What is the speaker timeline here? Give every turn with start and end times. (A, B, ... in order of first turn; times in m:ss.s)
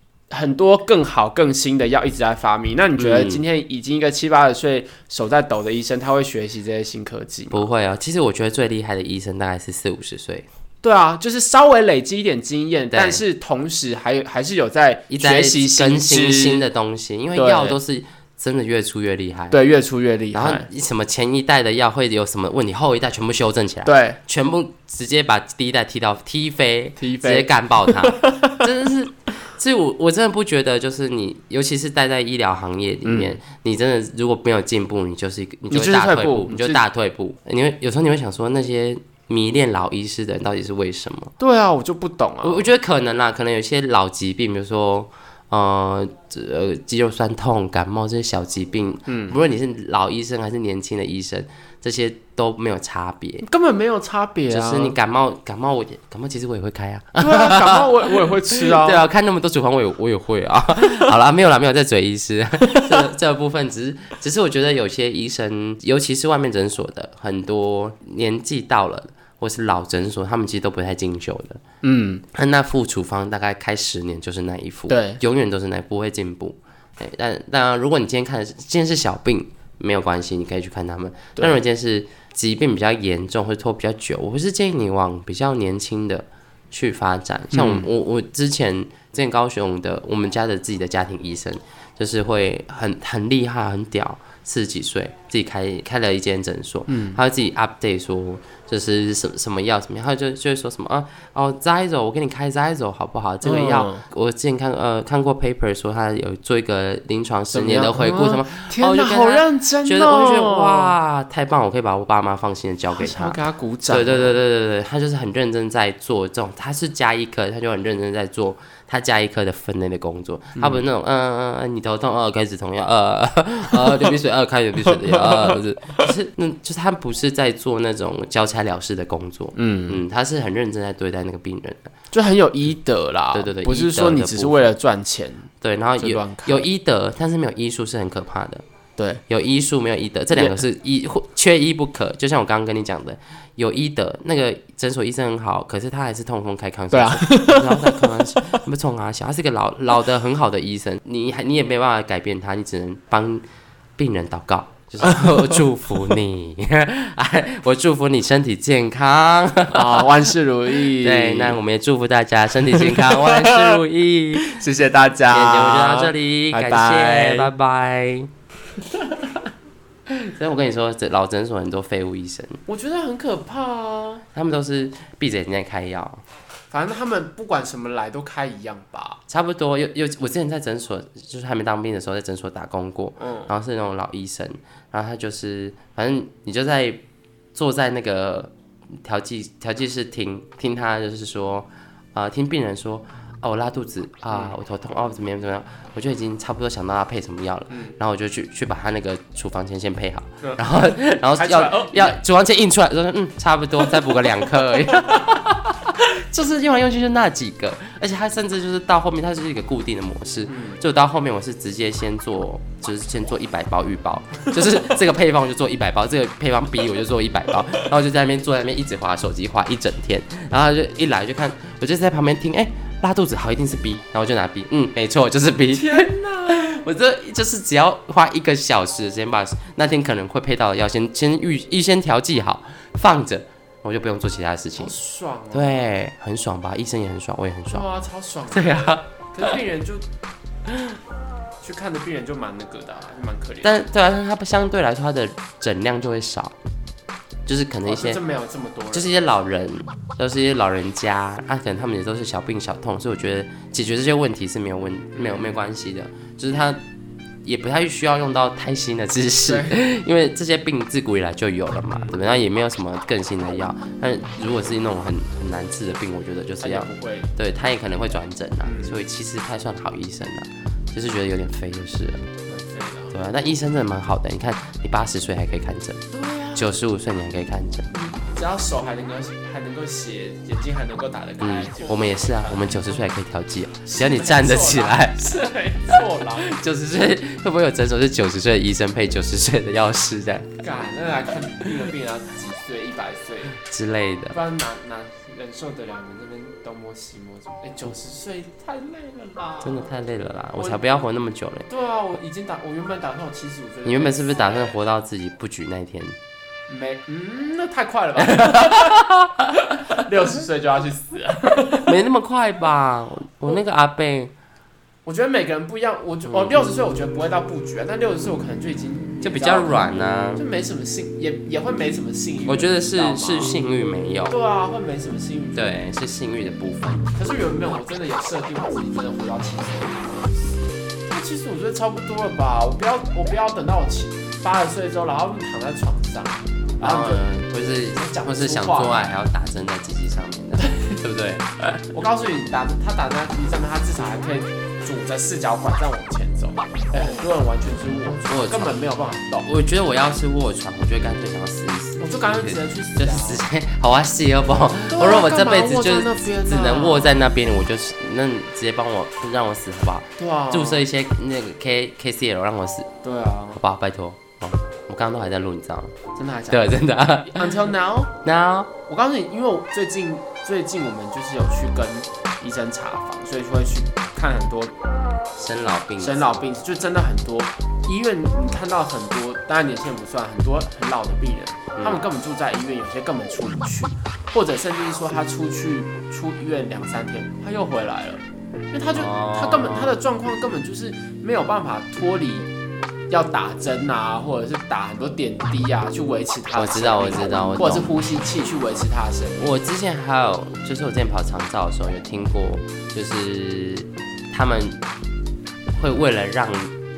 0:00.3-0:07.6 A
0:03.0-0:03.4 B
0:07.5-0:10.5 B
0:10.8-0:16.6 A
0:12.9-0:13.2 B
0:15.1-0:19.6 B
0:17.3-0:17.8 A
0:19.5-0:20.7 A
0:20.3-0:41.3 B
0:23.8-0:24.2 A
0:27.0-0:28.6 A
0:33.0-0:33.4 A
0:35.7-0:36.8 A
0:41.4-0:42.7 A
0:42.4-0:53.4 B
0:49.1-0:49.4 A
0:53.4-0:55.0 A
0:54.5-1:11.6 B
0:57.2-0:59.0 A
1:02.6-1:03.0 A
1:11.8-1:12.2 A
1:12.3-2:11.9 B
1:14.9-1:15.2 A
1:27.5-1:27.9 A
1:36.9-1:37.2 A
1:43.4-1:44.0 A
1:47.5-1:50.9 A
1:52.9-1:54.3 A
2:00.6-2:00.8 A
2:05.0-2:06.0 A
2:09.5-2:10.0 A
2:12.1-2:16.7 A
2:13.3-2:14.6 B
2:15.6-2:18.6 B
2:19.0-2:19.2 A
2:19.3-2:33.4 B
2:26.9-2:28.6 A
2:34.0-2:40.3 B
2:35.0-2:35.6 A
2:39.7-2:41.6 A
2:40.8-2:44.6 B
2:42.7-2:43.8 A
2:44.4-2:47.5 A
2:45.3-2:48.3 B
2:49.0-2:49.3 A
2:50.1-2:52.6 B
2:52.7-2:54.2 A
2:54.3-2:56.2 B
2:56.7-2:59.2 A
2:59.3-3:07.0 B
3:03.2-3:03.5 A
3:07.5-3:55.0 B
3:17.7-3:17.9 A
3:20.4-3:22.2 A
3:30.5-3:30.8 A
3:45.7-3:46.8 A
3:54.8-3:55.8 A
3:55.5-3:57.9 B
3:57.7-4:00.0 A
3:58.5-3:59.5 B
4:01.6-4:03.8 A
4:03.6-4:06.6 B
4:07.4-4:08.2 B
4:07.8-4:09.1 A
4:08.9-4:16.8 B
4:15.1-4:15.5 A
4:17.4-4:32.3 B
4:19.4-4:19.8 A
4:21.9-4:22.2 A
4:26.6-4:27.3 A
4:28.6-4:29.0 A
4:32.5-4:33.2 A
4:33.1-4:36.0 B
4:36.1-4:36.7 A
4:36.5-4:37.9 B
4:37.9-4:42.8 A
4:41.4-4:45.3 B
4:43.8-4:46.5 A
4:45.9-4:50.6 B
4:50.6-4:53.6 A
4:53.6-4:54.4 B
4:54.3-4:59.9 A
4:59.6-5:01.7 B
5:00.6-5:00.8 A
5:01.7-5:04.7 A
5:03.8-5:06.2 B
5:06.7-5:11.9 A
5:08.2-5:09.6 B
5:11.8-5:14.3 B
5:15.0-5:19.8 A
5:16.3-5:16.7 B
5:19.2-5:20.4 B
5:20.4-5:23.5 A
5:22.5-5:24.4 B
5:24.3-5:25.8 A
5:25.6-5:27.1 B
5:27.1-5:30.6 A
5:31.1-5:37.2 A
5:36.8-5:41.5 B
5:37.9-5:39.1 A
5:40.7-5:40.9 A
5:41.9-5:49.5 A
5:48.2-5:48.8 B
5:49.4-6:02.9 B
5:52.0-5:53.4 A
5:54.9-5:57.2 A
6:00.2-6:00.9 A
6:03.0-6:03.6 A
6:03.6-6:05.9 B
6:06.2-6:08.1 A
6:06.5-6:07.5 B
6:08.2-6:08.7 B
6:08.9-6:14.7 A
6:15.4-6:16.2 B
6:16.0-6:32.5 A
6:28.9-6:30.0 B
6:33.1-6:39.5 A
6:36.6-6:37.9 B
6:39.4-6:44.8 B
6:45.7-6:46.7 B